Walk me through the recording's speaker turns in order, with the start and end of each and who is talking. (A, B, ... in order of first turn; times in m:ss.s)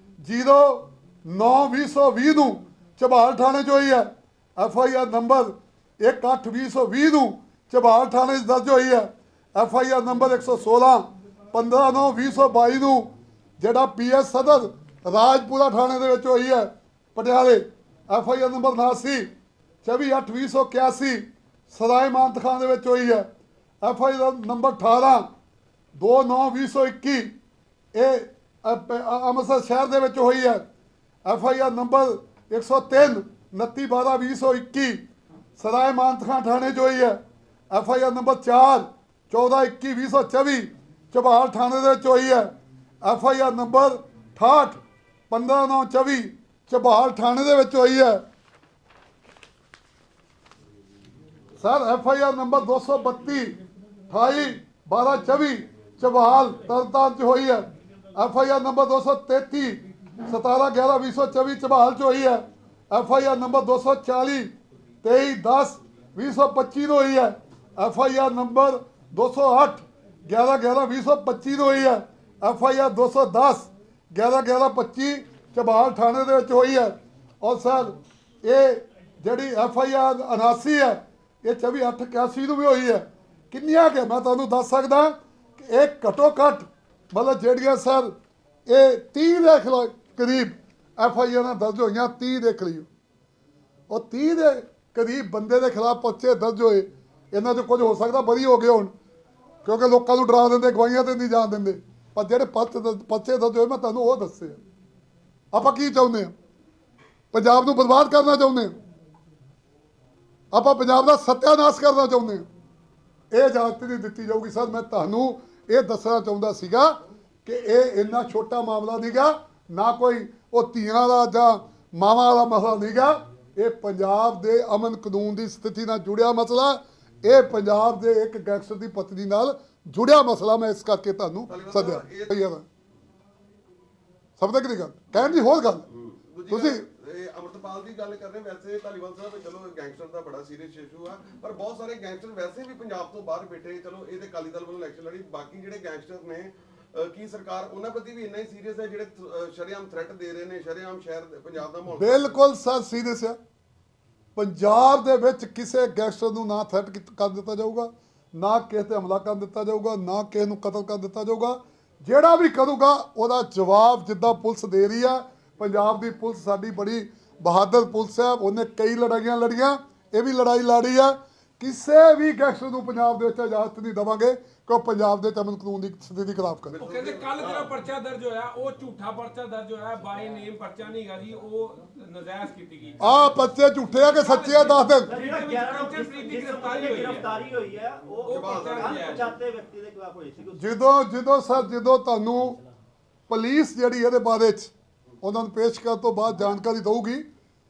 0:00.2-0:19.3 A
0:19.8-0:23.3 A
0:23.8-0:25.3 A
0:26.0-0:27.3 A
0:27.9-0:30.6 A
0:31.2-0:35.0 A
0:35.6-0:37.2 A
0:37.7-0:48.2 A
0:51.6-0:53.6 A
0:54.1-1:28.1 A
1:28.7-1:32.9 A
1:33.9-1:38.9 A
1:39.6-1:44.6 A
1:45.5-1:46.3 A
1:47.3-1:48.8 A
1:50.5-1:52.5 A
1:53.3-2:12.6 A
2:11.5-2:12.3 B
2:14.4-2:15.9 A
2:15.9-2:32.4 B
2:16.5-2:16.8 A
2:32.0-2:33.4 A
2:34.4-2:56.8 A
2:56.7-2:57.7 B
2:56.8-3:07.4 C
3:03.0-3:05.1 A
3:05.1-3:10.6 D
3:08.3-3:09.2 B
3:08.3-3:09.3 C
3:10.6-3:12.6 A
3:13.3-3:17.2 A